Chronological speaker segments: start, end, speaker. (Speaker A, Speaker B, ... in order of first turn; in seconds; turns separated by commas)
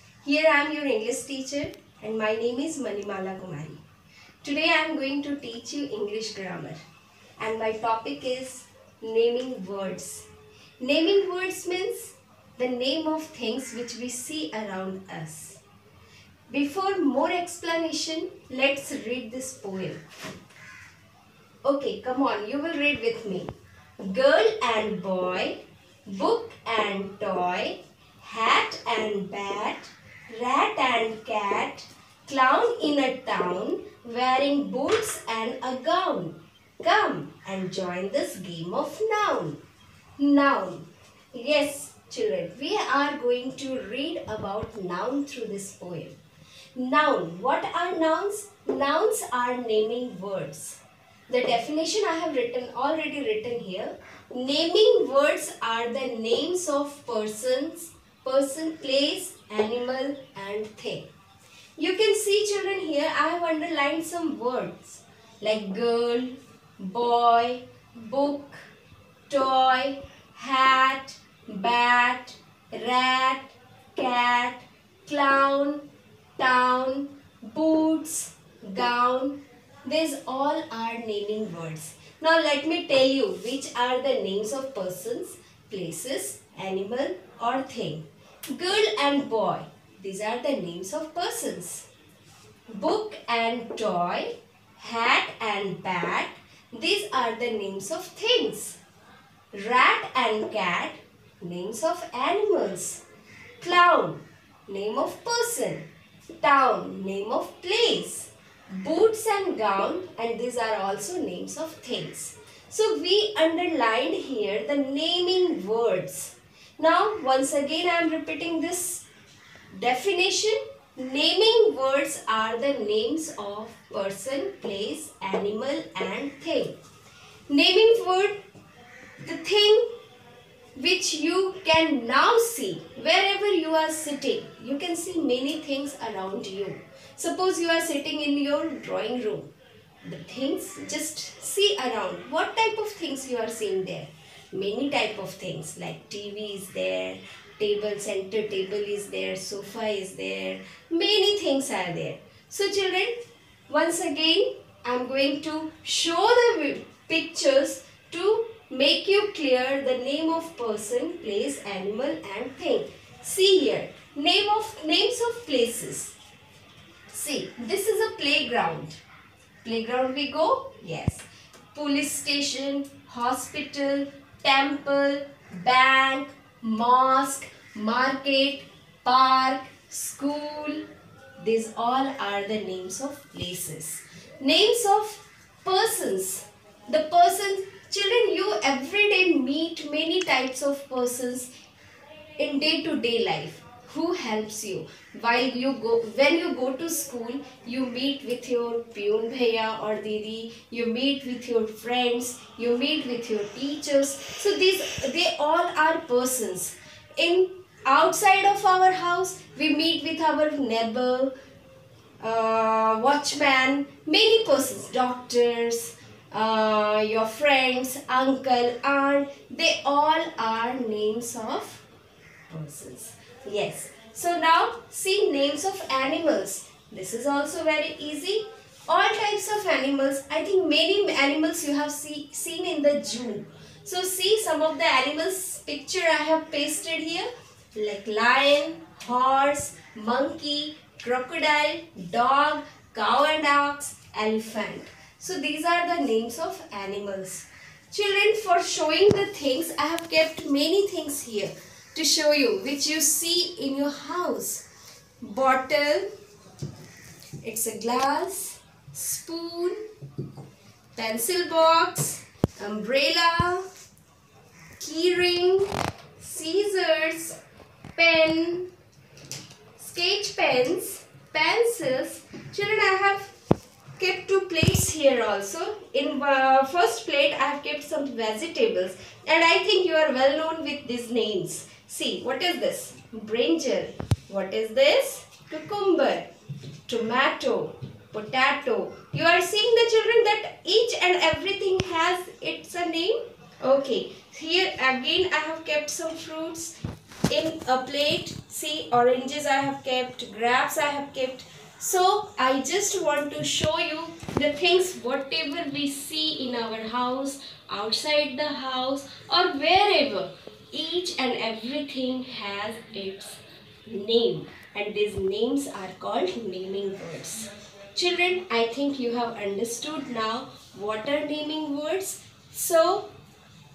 Speaker A: 0.2-3.8, Speaker A: 4.4-6.8, Speaker A: 7.4-10.3, Speaker A: 10.8-15.6, Speaker A: 16.5-20.0, Speaker A: 21.6-39.6, Speaker A: 40.2-46.2, Speaker A: 46.8-61.1, Speaker A: 61.8-68.6, Speaker A: 69.3-75.8, Speaker A: 76.4-91.9, Speaker A: 92.7-98.8, Speaker A: 99.5-103.0, Speaker A: 103.6-105.9, Speaker A: 106.4-119.0, Speaker A: 119.7-126.8, Speaker A: 127.5-128.4, Speaker A: 129.2-129.9, Speaker A: 130.8-139.5, Speaker A: 140.0-166.2, Speaker A: 167.1-169.0, Speaker A: 169.6-180.8, Speaker A: 181.4-191.5, Speaker A: 192.4-211.3, Speaker A: 212.2-221.8, Speaker A: 222.5-254.6, Speaker A: 255.2-256.1, Speaker A: 257.4-259.8, Speaker A: 260.9-263.6, Speaker A: 264.8-267.4, Speaker A: 267.9-268.7, Speaker A: 269.8-273.3, Speaker A: 274.0-286.3, Speaker A: 286.9-296.7, Speaker A: 297.3-323.1